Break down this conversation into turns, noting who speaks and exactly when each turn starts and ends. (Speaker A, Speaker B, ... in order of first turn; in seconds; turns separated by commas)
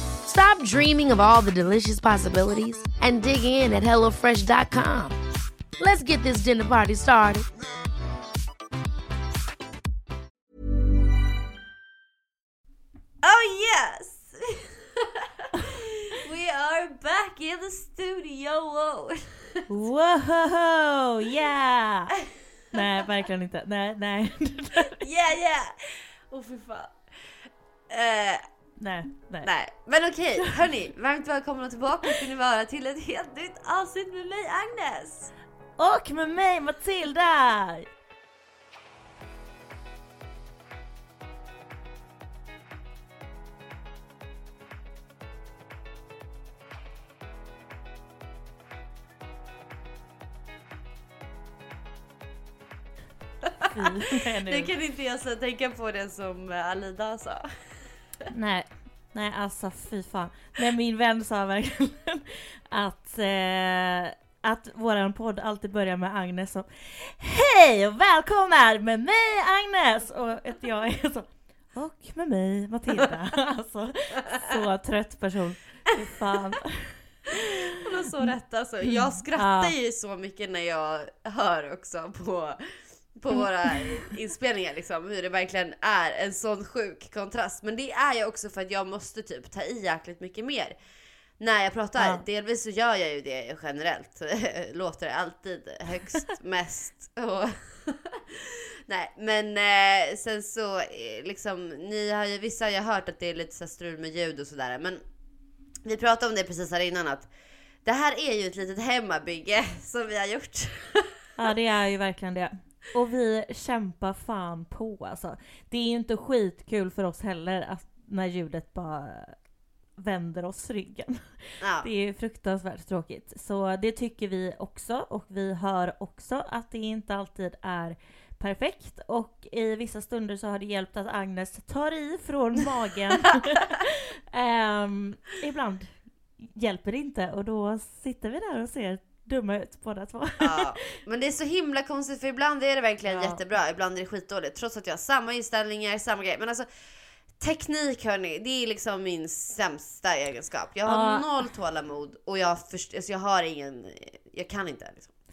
Speaker A: 0.2-5.2, Speaker A: 5.8-7.5, Speaker B: 13.2-19.6, Speaker C: 19.7-22.2, Speaker C: 22.7-25.1, Speaker B: 25.0-27.3, Speaker B: 27.9-28.4, Speaker C: 28.8-29.5, Speaker B: 29.4-35.3, Speaker C: 35.8-37.9, Speaker C: 53.7-54.7, Speaker B: 54.5-57.5, Speaker C: 58.3-77.6, Speaker B: 77.8-82.6, Speaker C: 78.2-79.8, Speaker B: 83.1-90.8, Speaker C: 83.3-84.0, Speaker B: 91.4-105.0, Speaker C: 92.0-92.2, Speaker B: 105.8-107.3, Speaker B: 107.8-111.1, Speaker C: 111.4-119.4, Speaker C: 120.0-141.0, Speaker B: 121.6-121.9, Speaker B: 140.4-146.7, Speaker C: 143.1-143.4, Speaker B: 147.4-155.1, Speaker C: 150.9-151.3